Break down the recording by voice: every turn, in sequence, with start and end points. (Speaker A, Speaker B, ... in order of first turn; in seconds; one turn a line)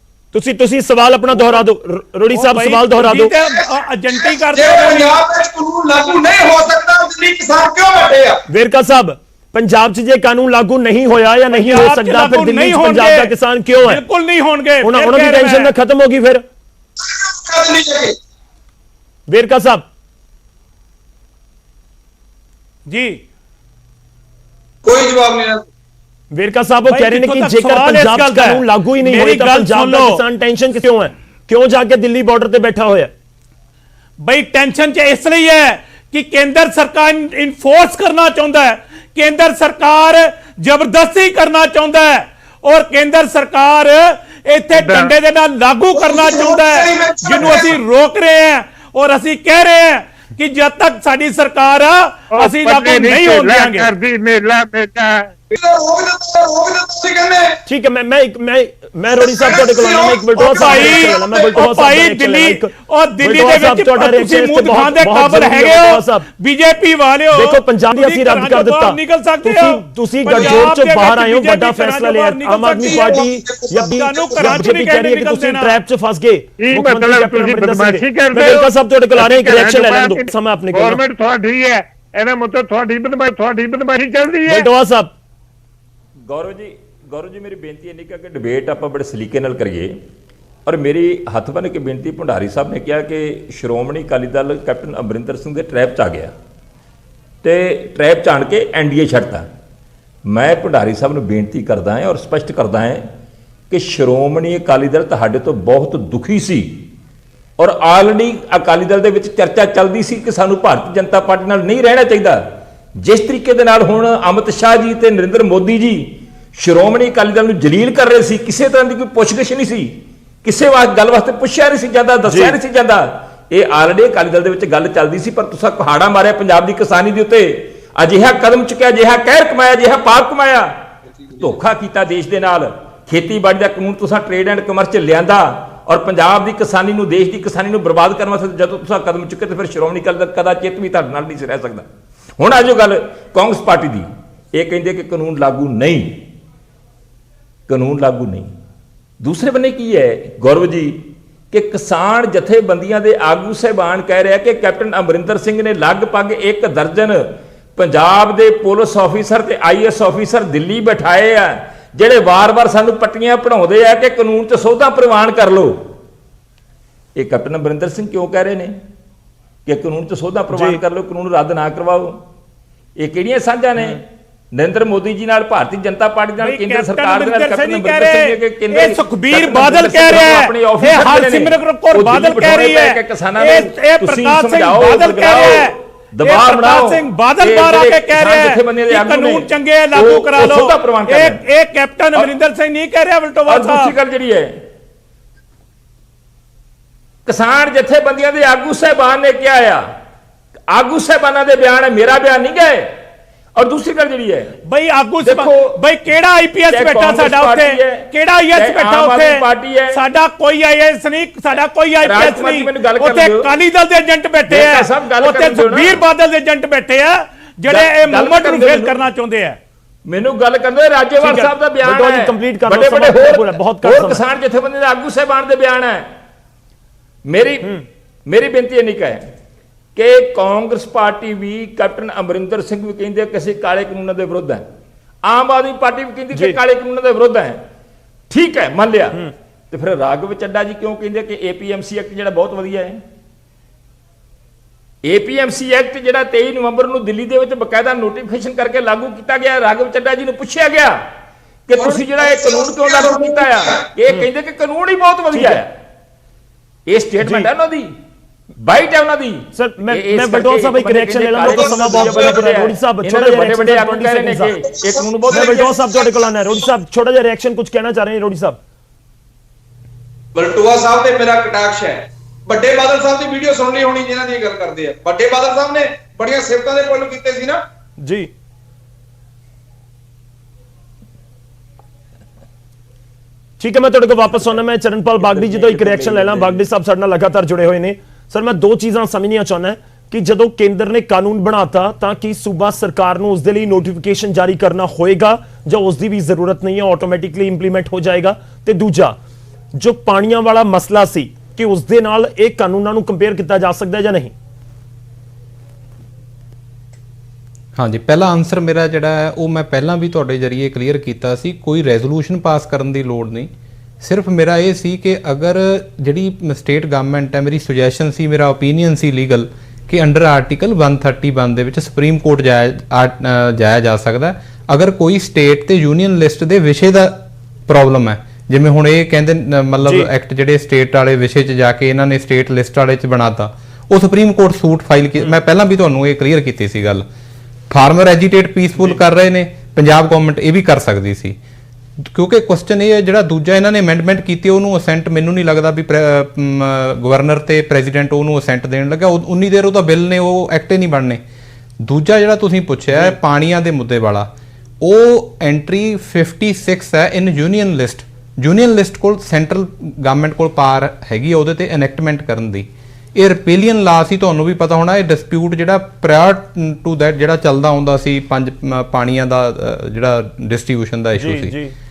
Speaker A: 0.3-3.3
Speaker B: 2.3-5.1
Speaker C: 4.5-8.4
Speaker A: 8.5-14.0
Speaker B: 11.5-15.7
Speaker A: 14.8-16.4
Speaker C: 17.0-18.2
Speaker A: 19.3-19.9
Speaker B: 22.9-23.2
Speaker C: 24.8-25.6
Speaker A: 26.3-33.1
Speaker B: 26.9-30.2
Speaker B: 34.2-53.9
Speaker D: 44.7-45.1
Speaker C: 46.0-47.7
Speaker D: 52.3-55.3
Speaker C: 55.5-57.6
Speaker A: 57.7-66.3
Speaker C: 59.2-61.5
Speaker B: 60.4-73.3
Speaker A: 67.3-81.0
Speaker C: 72.8-74.6
Speaker B: 73.9-75.8
Speaker D: 76.6-84.7
Speaker A: 84.5-85.1
Speaker E: 86.3-90.0
Speaker E: 90.7-96.3
Speaker E: 97.4-99.5
Speaker E: 100.3-103.1
Speaker E: 103.7-106.9
Speaker E: 107.6-130.8
Speaker A: 122.3-122.6
Speaker E: 131.4-141.9
Speaker E: 142.4-146.3
Speaker E: 147.7-148.5
Speaker E: 149.2-165.9
Speaker E: 167.2-168.8
Speaker E: 169.7-172.2
Speaker A: 170.5-170.8
Speaker E: 173.0-191.4
Speaker B: 176.4-193.9
Speaker E: 193.5-194.6
Speaker E: 197.3-199.9
Speaker E: 200.7-203.0
Speaker E: 203.6-204.6
Speaker B: 204.7-219.6
Speaker E: 205.2-205.8
Speaker E: 206.7-210.0
Speaker E: 212.0-213.5
Speaker E: 214.5-216.0
Speaker E: 217.7-219.0
Speaker E: 220.1-226.1
Speaker A: 221.2-224.2
Speaker E: 227.3-229.3
Speaker E: 230.0-234.7
Speaker E: 235.2-237.7
Speaker E: 238.3-243.0
Speaker E: 245.0-251.1
Speaker E: 251.7-255.7
Speaker C: 251.8-253.8
Speaker A: 255.3-255.6
Speaker E: 256.9-257.9
Speaker A: 257.2-257.5
Speaker E: 258.6-265.8
Speaker A: 259.6-264.6
Speaker C: 261.4-262.4
Speaker C: 264.8-266.1
Speaker A: 265.3-268.6
Speaker C: 270.4-277.6
Speaker A: 278.0-278.3
Speaker A: 283.6-299.2
Speaker E: 285.2-286.6
Speaker A: 299.8-304.3
Speaker F: 307.8-337.1
Speaker A: 329.9-330.1
Speaker F: 337.7-341.4
Speaker F: 342.0-351.2
Speaker F: 351.8-354.3
Speaker F: 354.8-371.6
Speaker A: 371.2-371.7